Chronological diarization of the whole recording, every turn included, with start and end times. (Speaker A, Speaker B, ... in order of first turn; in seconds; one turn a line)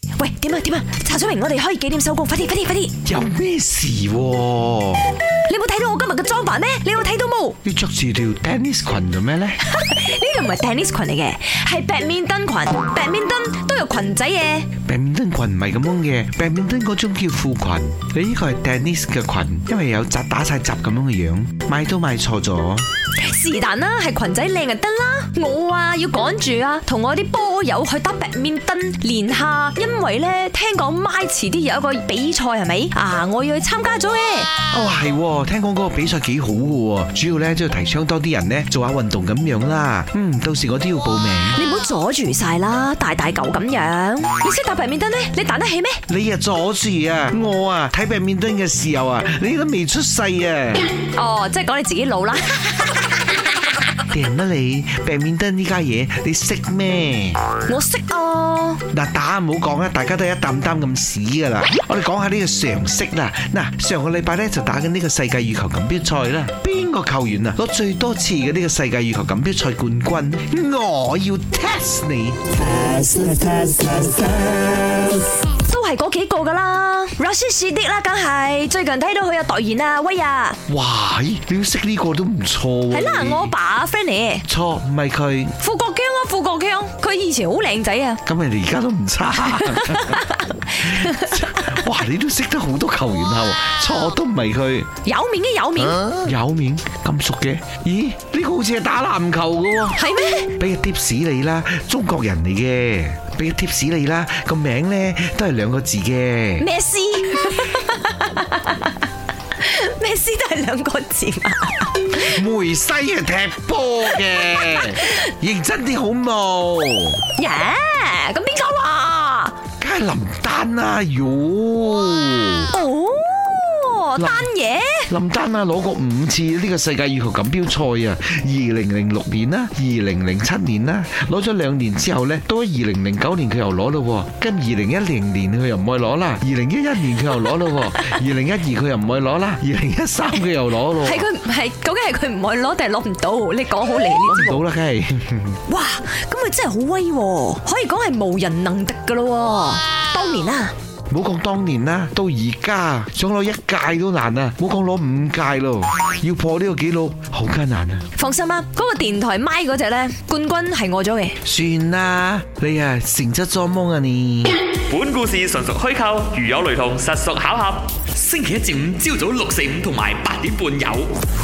Speaker A: 0.2-3.0
Speaker B: 3.0-5.1
Speaker A: 5.5-7.6
Speaker B: 7.6-9.6
Speaker A: 9.6-14.7
Speaker B: 14.8-22.9
Speaker A: 23.2-34.5
Speaker B: 34.7-41.6
Speaker A: 41.5-46.0
Speaker B: 46.1-50.9
Speaker A: 51.1-53.2
Speaker B: 54.1-57.4
Speaker A: 57.7-58.8
Speaker B: 58.9-75.1
Speaker A: 75.6-80.6
Speaker B: 80.7-83.5
Speaker A: 82.9-84.5
Speaker B: 84.5-85.6
Speaker A: 85.6-88.2
Speaker B: 88.3-90.2
Speaker A: 89.4-91.8
Speaker B: 90.8-94.9
Speaker A: 95.0-96.0
Speaker B: 95.8-100.0
Speaker A: 100.0-100.5
Speaker B: 100.6-106.7
Speaker A: 106.6-109.0
Speaker A: 109.6-112.3
Speaker B: 112.2-117.2
Speaker A: 114.3-115.1
Speaker A: 117.3-119.6
Speaker B: 119.8-122.7
Speaker A: 122.7-125.1
Speaker B: 124.2-124.5
Speaker B: 125.1-141.3
Speaker A: 141.0-144.6
Speaker B: 144.3-145.6
Speaker A: 145.7-150.7
Speaker B: 151.1-158.1
Speaker A: 158.2-161.4
Speaker B: 161.4-164.6
Speaker C: 164.9-171.1